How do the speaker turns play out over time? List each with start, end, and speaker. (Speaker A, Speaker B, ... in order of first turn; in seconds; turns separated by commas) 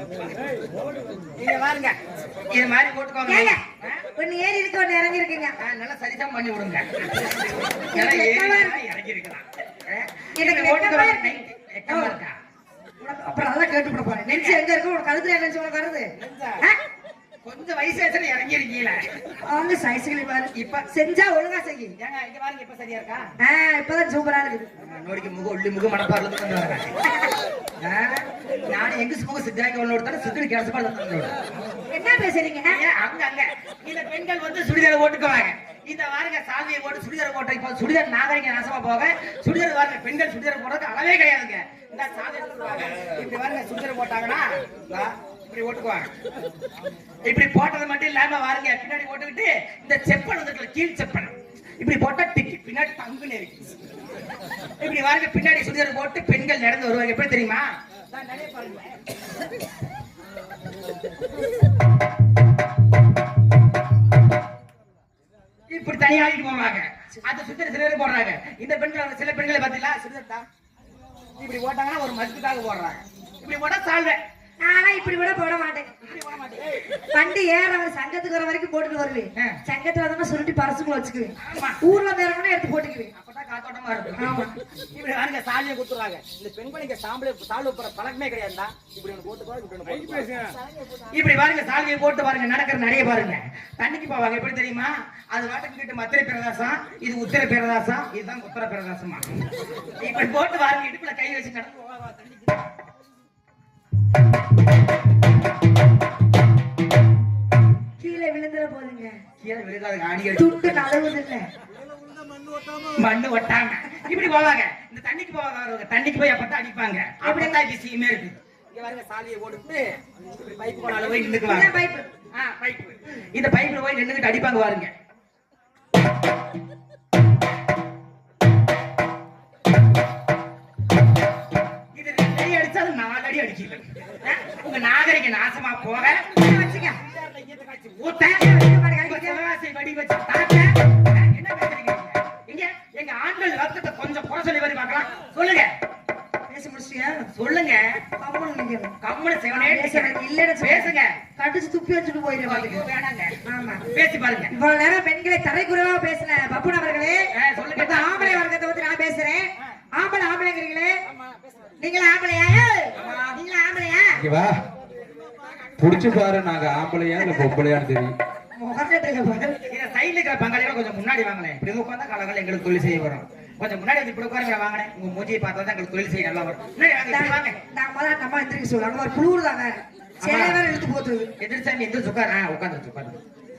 Speaker A: 1.4-2.0, Speaker A: 2.5-4.0, Speaker B: 3.2-3.6, Speaker B: 4.2-5.5, Speaker A: 5.6-7.3, Speaker A: 7.9-12.3, Speaker B: 7.9-8.8, Speaker B: 10.4-12.2, Speaker B: 13.0-16.1, Speaker A: 14.3-14.6, Speaker A: 16.1-16.6, Speaker A: 17.4-19.2, Speaker B: 19.4-21.9, Speaker A: 20.5-20.9, Speaker A: 22.0-23.2, Speaker B: 23.4-24.7, Speaker A: 24.8-26.9, Speaker A: 27.8-31.3, Speaker B: 31.9-32.8, Speaker A: 32.7-46.1, Speaker A: 47.2-53.7, Speaker A: 54.8-58.9, Speaker A: 65.7-70.5, Speaker A: 71.4-74.2, Speaker B: 74.6-75.9, Speaker A: 76.0-76.8, Speaker B: 77.1-83.1, Speaker A: 81.4-81.8, Speaker A: 83.1-90.4, Speaker B: 84.2-84.5, Speaker A: 91.1-99.2, Speaker A: 100.0-102.3, Speaker B: 108.0-109.2, Speaker A: 109.4-110.6, Speaker B: 110.3-111.5, Speaker A: 112.9-121.8, Speaker B: 117.2-117.6, Speaker B: 121.4-122.0, Speaker A: 122.3-124.9, Speaker A: 131.9-145.7, Speaker B: 135.9-137.0, Speaker B: 138.3-139.4, Speaker B: 146.5-147.3, Speaker A: 147.3-147.8, Speaker B: 148.2-148.9, Speaker A: 149.0-151.1, Speaker B: 149.5-152.9, Speaker A: 152.4-153.3, Speaker B: 153.4-153.9, Speaker A: 153.9-154.5, Speaker B: 154.5-161.0, Speaker A: 157.3-158.4, Speaker A: 161.1-161.4, Speaker B: 161.8-164.2, Speaker A: 162.9-163.3, Speaker C: 164.1-164.6, Speaker C: 165.8-168.1, Speaker B: 167.2-167.5, Speaker B: 168.5-169.6, Speaker A: 169.6-177.6, Speaker B: 177.1-181.3, Speaker A: 180.2-180.6, Speaker A: 181.4-183.2